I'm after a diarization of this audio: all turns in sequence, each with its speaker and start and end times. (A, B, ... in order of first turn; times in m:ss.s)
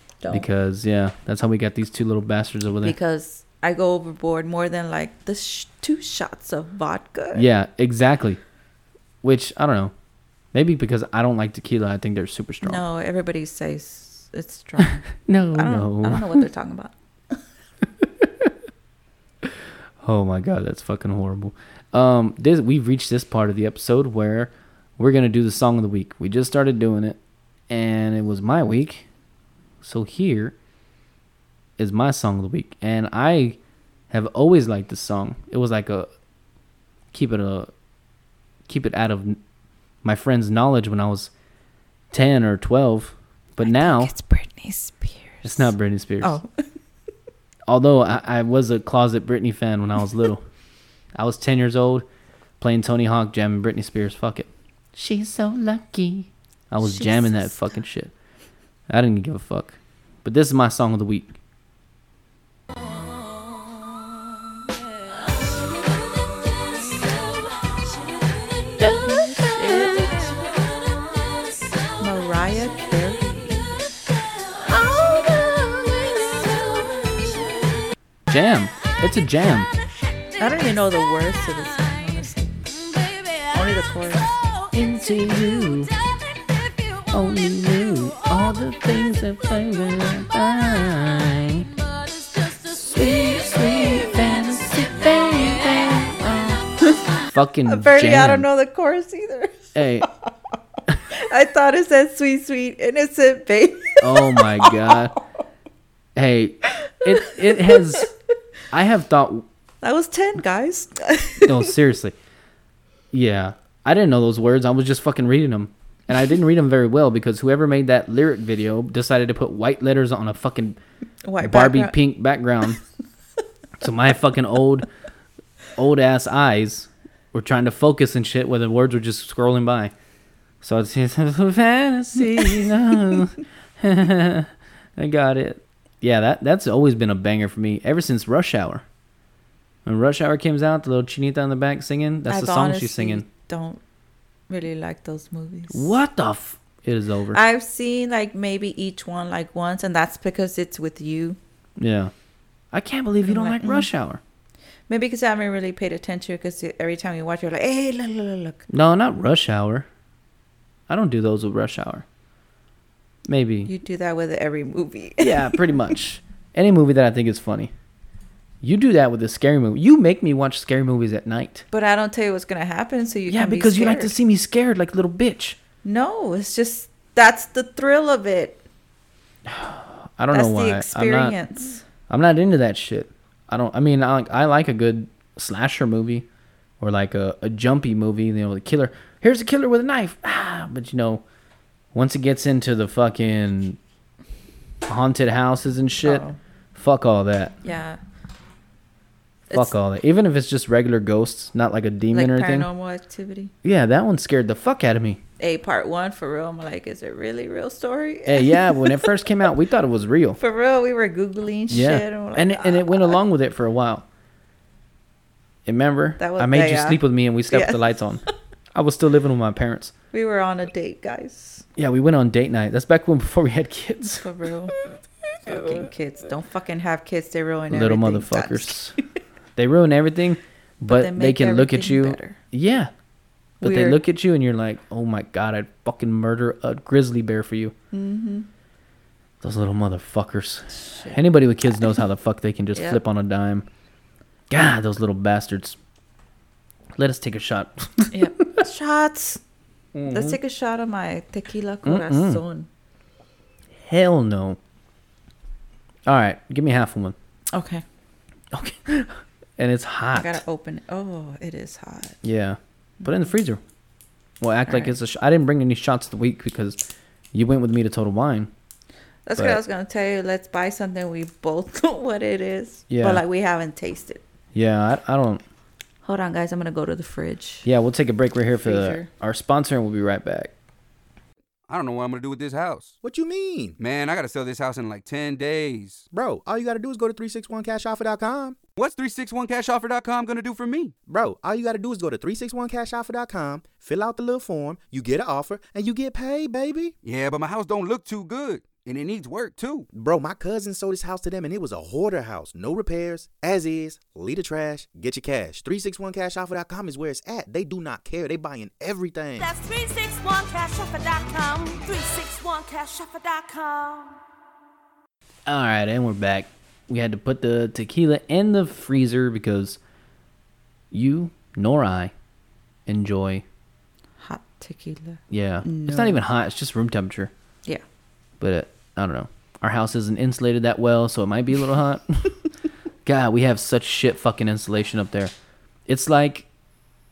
0:00.2-0:00.5 A
0:00.3-0:03.0 B
0:02.8-0:07.5 A
0:07.4-0:08.4 B
0:09.2-0:09.9 B
0:10.5-0:12.8 B
0:12.6-0:17.4 A
0:14.8-0:16.4 B
0:18.0-0:18.5 B
0:19.4-0:27.2 B
0:27.7-0:29.1 B
0:29.8-0:30.6 B
0:31.8-0:33.6 B
0:34.1-0:36.1 B
0:37.1-0:37.7 B
0:38.7-0:39.4 B
0:40.0-0:41.3 B
0:42.1-0:44.1 B
0:43.6-0:46.5 A
0:45.4-0:46.4 B
0:47.7-0:50.4 B
0:51.2-0:52.1 B
0:52.6-0:58.1 B
0:56.8-0:57.6 A
0:58.9-1:01.4 B
1:08.8-1:10.0 B
1:09.0-1:10.3 A
1:12.0-1:13.8 A
1:14.8-1:15.6 B
1:18.3-1:19.7 B
1:20.4-1:22.6 A
1:23.5-1:24.4 A
1:24.7-1:25.9 B
1:27.1-1:31.7 B
1:32.7-1:36.6 B
1:37.3-1:38.5 B
1:37.7-1:40.0 A
1:39.8-1:40.1 B
1:41.1-1:45.1 A
1:44.0-1:45.2 B
1:46.2-1:48.1 B
1:46.8-1:48.1 A
1:48.7-1:49.5 B
1:49.8-1:51.7 A
1:51.4-1:52.2 B
1:53.1-2:00.8 B
2:01.2-2:02.0 A
2:01.4-2:02.8 B
2:03.8-2:04.9 B
2:05.8-2:09.9 B
2:10.6-2:18.8 B
2:19.9-2:23.2 B
2:22.3-2:23.8 A
2:24.5-2:26.0 A
2:25.7-2:27.4 B
2:27.3-2:31.4 A
2:31.8-2:32.1 B
2:32.7-2:34.2 B
2:33.2-2:33.9 A
2:34.9-2:38.7 A
2:38.7-2:39.9 B
2:40.9-2:42.0 B
2:43.3-2:43.7 B
2:43.7-2:45.9 A
2:45.2-2:47.7 B
2:48.6-2:51.7 B
2:51.7-2:54.1 A
2:53.3-2:55.6 B
2:55.8-2:58.6 A
2:59.5-3:01.4 B
3:00.3-3:01.8 A
3:02.1-3:06.3 B
3:06.8-3:11.2 B
3:11.9-3:13.8 B
3:14.9-3:17.6 B
3:16.0-3:16.4 A
3:17.6-3:18.0 A
3:19.5-3:22.7 B
3:22.1-3:23.5 A
3:23.6-3:25.2 B
3:25.4-3:29.3 A
3:28.3-3:30.4 B
3:30.4-3:33.2 A
3:31.7-3:34.1 B
3:35.7-3:39.9 B
3:36.2-3:37.9 A
3:40.1-3:41.6 A
3:41.8-3:44.3 B
3:44.2-3:44.8 A
3:45.5-3:49.1 A
3:45.5-3:45.9 B
3:47.7-3:49.0 B
3:49.6-3:52.9 B
3:50.9-3:52.4 A
3:53.6-3:54.0 A
3:53.6-3:57.7 B
3:57.9-3:58.5 A
3:59.4-4:03.7 B
4:00.7-4:01.2 A
4:02.8-4:03.0 A
4:04.5-4:05.8 B
4:07.0-4:08.6 B
4:08.1-4:09.4 A
4:10.0-4:10.4 B
4:10.1-4:12.7 A
4:11.8-4:12.4 B
4:13.8-4:14.6 B
4:16.1-4:17.2 B
4:17.5-4:17.8 A
4:18.5-4:20.4 B
4:20.1-4:22.2 A
4:22.2-4:23.6 B
4:23.0-4:23.3 A
4:24.4-4:26.8 B
4:24.7-4:25.0 A
4:27.3-4:28.5 B
4:29.3-4:34.2 A
4:32.9-4:33.2 B
4:34.5-4:35.4 B
4:36.0-4:37.7 A
4:37.6-4:40.5 B
4:38.5-4:39.1 A
4:41.7-4:42.9 C
4:43.0-4:43.8 D
4:43.8-4:46.0 C
4:46.1-4:48.6 D
4:48.8-4:50.9 C
4:51.1-4:57.0 D
4:57.0-4:59.9 C
4:59.9-5:09.5 D
5:09.4-5:14.2 E
5:15.5-5:19.8 B
5:20.9-5:22.1 B
5:22.9-5:23.4 B
5:24.2-5:26.2 A
5:25.3-5:27.3 B
5:28.4-5:32.4 B
5:33.0-5:35.3 B
5:35.9-5:36.5 B